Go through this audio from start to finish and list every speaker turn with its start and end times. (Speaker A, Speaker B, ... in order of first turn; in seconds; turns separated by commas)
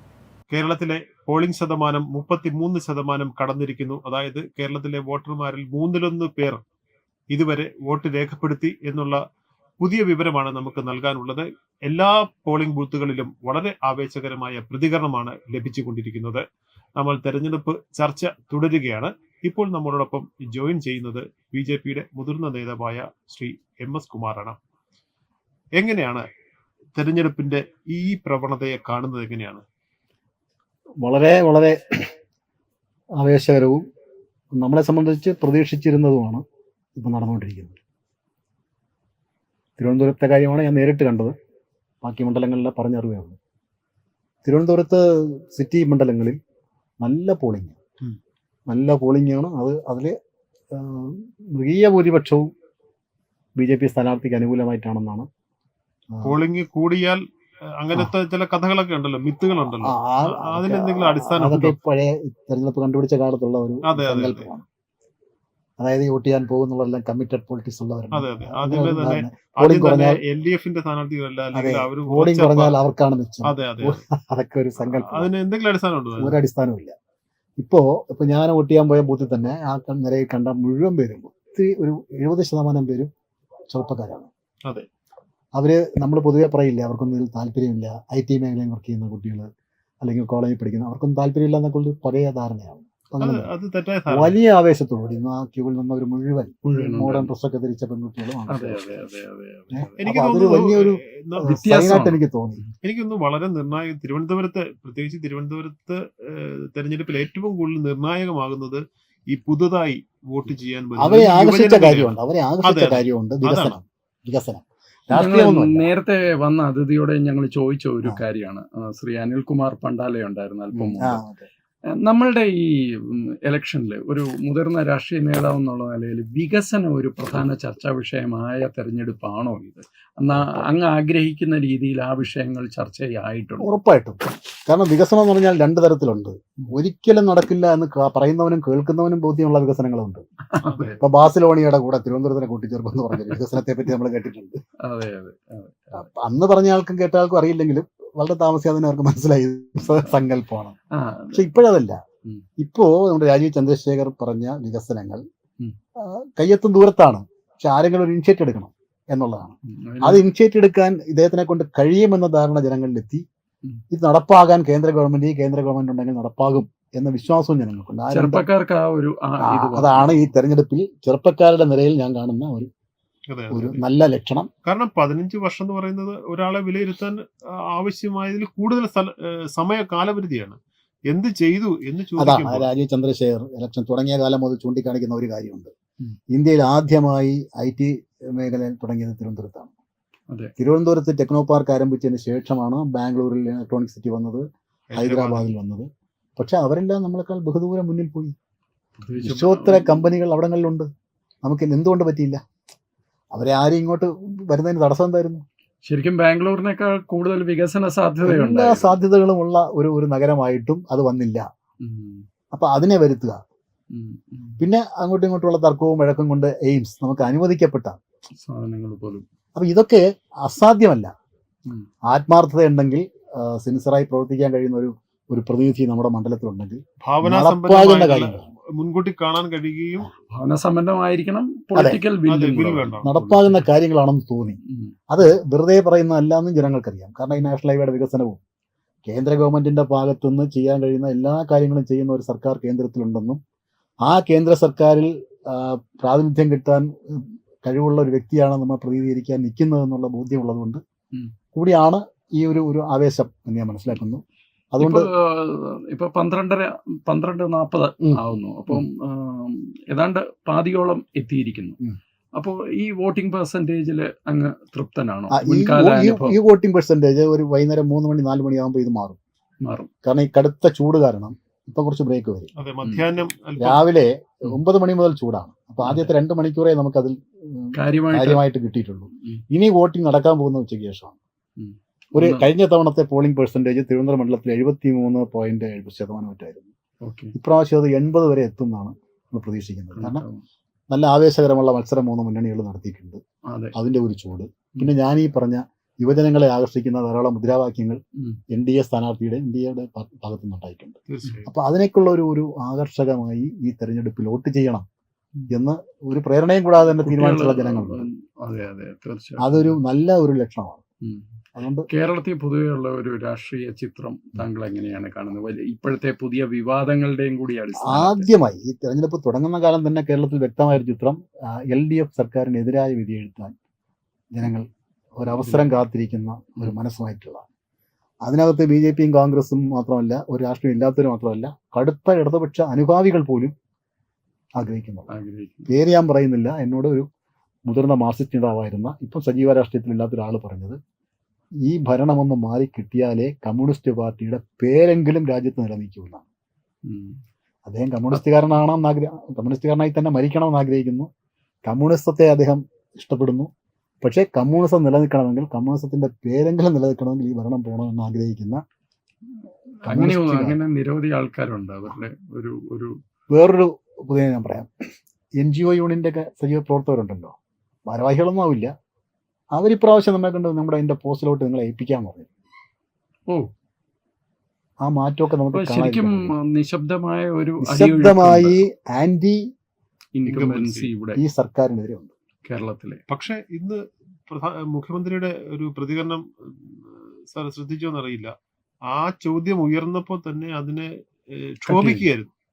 Speaker A: 0.5-6.6, Speaker A: 7.3-9.2, Speaker A: 9.8-16.4, Speaker A: 17.0-24.6, Speaker A: 25.8-26.2, Speaker A: 26.9-29.6, Speaker B: 31.0-32.1, Speaker B: 33.2-33.8, Speaker B: 34.5-36.4, Speaker B: 37.0-37.8, Speaker B: 39.8-41.3, Speaker B: 42.0-43.4, Speaker B: 44.4-46.4, Speaker B: 47.0-47.8, Speaker B: 48.7-50.1, Speaker B: 50.7-52.5, Speaker B: 53.6-55.3, Speaker A: 56.2-57.2, Speaker A: 57.8-61.8, Speaker B: 59.8-64.7, Speaker A: 63.8-64.5, Speaker B: 65.8-70.2, Speaker A: 68.1-72.8, Speaker B: 71.5-75.3, Speaker A: 73.5-74.0, Speaker A: 74.8-76.4, Speaker B: 76.2-76.9, Speaker B: 77.6-83.1, Speaker B: 83.7-84.3, Speaker B: 85.6-89.5, Speaker B: 90.0-93.5, Speaker A: 93.2-94.4, Speaker B: 94.1-98.9, Speaker C: 96.7-97.3, Speaker C: 98.5-100.0, Speaker B: 99.7-102.6, Speaker A: 100.0-101.5, Speaker C: 101.4-102.7, Speaker A: 102.8-113.7, Speaker B: 111.0-115.9, Speaker C: 115.1-121.2, Speaker B: 120.7-121.5, Speaker C: 121.9-133.7, Speaker B: 130.3-130.7, Speaker B: 133.6-140.2, Speaker C: 140.5-141.0, Speaker A: 140.6-141.0, Speaker B: 141.0-144.6, Speaker C: 144.8-146.1, Speaker B: 145.9-150.8, Speaker C: 150.9-151.5, Speaker B: 151.3-152.0, Speaker B: 152.6-155.2, Speaker B: 156.0-163.2, Speaker C: 159.7-160.2, Speaker B: 163.9-168.5, Speaker C: 168.1-170.3, Speaker B: 169.4-172.7, Speaker A: 173.3-173.8, Speaker B: 173.5-174.5, Speaker A: 174.7-182.7, Speaker B: 182.2-185.7, Speaker B: 186.3-189.7, Speaker B: 190.6-194.4, Speaker A: 194.9-195.5, Speaker B: 195.0-198.3, Speaker C: 199.0-199.9, Speaker B: 199.2-200.9, Speaker B: 201.4-202.4, Speaker B: 203.3-205.4, Speaker C: 205.9-209.0, Speaker B: 208.2-211.5, Speaker C: 211.8-212.2, Speaker B: 212.5-213.4, Speaker C: 213.9-214.6, Speaker B: 214.6-218.0, Speaker C: 218.4-219.2, Speaker B: 219.6-221.1, Speaker B: 222.1-228.5, Speaker A: 227.0-230.1, Speaker C: 230.3-233.7, Speaker B: 231.8-232.0, Speaker A: 232.2-233.1, Speaker B: 233.1-238.4, Speaker C: 234.7-234.9, Speaker B: 239.1-243.4, Speaker B: 244.1-250.8, Speaker B: 251.5-255.1, Speaker C: 254.8-261.8, Speaker B: 258.1-258.8, Speaker C: 262.4-266.4, Speaker B: 265.3-269.2, Speaker C: 269.6-269.9, Speaker B: 270.0-272.5, Speaker A: 272.6-273.8, Speaker C: 272.8-273.1, Speaker B: 273.6-281.2, Speaker C: 275.8-276.1, Speaker C: 277.8-278.4, Speaker C: 281.6-282.5, Speaker B: 282.1-286.7, Speaker C: 287.0-287.3, Speaker B: 287.3-290.2, Speaker C: 289.9-290.4, Speaker B: 290.9-293.2, Speaker C: 293.5-293.8, Speaker B: 293.8-298.0, Speaker B: 298.5-304.9, Speaker A: 301.1-301.5, Speaker B: 305.5-308.1, Speaker C: 306.9-309.8, Speaker B: 309.4-310.8, Speaker C: 311.0-311.3, Speaker B: 311.5-311.9, Speaker C: 311.9-318.3, Speaker B: 317.8-323.5, Speaker B: 324.3-327.4, Speaker C: 325.4-325.7, Speaker B: 328.2-333.5, Speaker B: 334.6-335.1, Speaker C: 335.1-335.7, Speaker B: 335.7-337.1, Speaker B: 337.7-340.8, Speaker B: 341.6-346.2, Speaker C: 346.9-347.2, Speaker B: 347.6-351.1, Speaker B: 351.6-353.5, Speaker B: 354.0-358.6, Speaker B: 359.8-360.6, Speaker C: 359.8-363.0, Speaker B: 363.3-367.3, Speaker B: 367.9-368.7, Speaker B: 369.5-372.3, Speaker B: 374.8-376.3, Speaker C: 375.5-378.6, Speaker B: 377.6-379.4, Speaker C: 380.1-381.2, Speaker A: 380.2-380.9, Speaker B: 381.1-382.1, Speaker C: 382.4-383.0, Speaker A: 383.1-388.3, Speaker A: 388.9-392.3, Speaker C: 391.7-392.1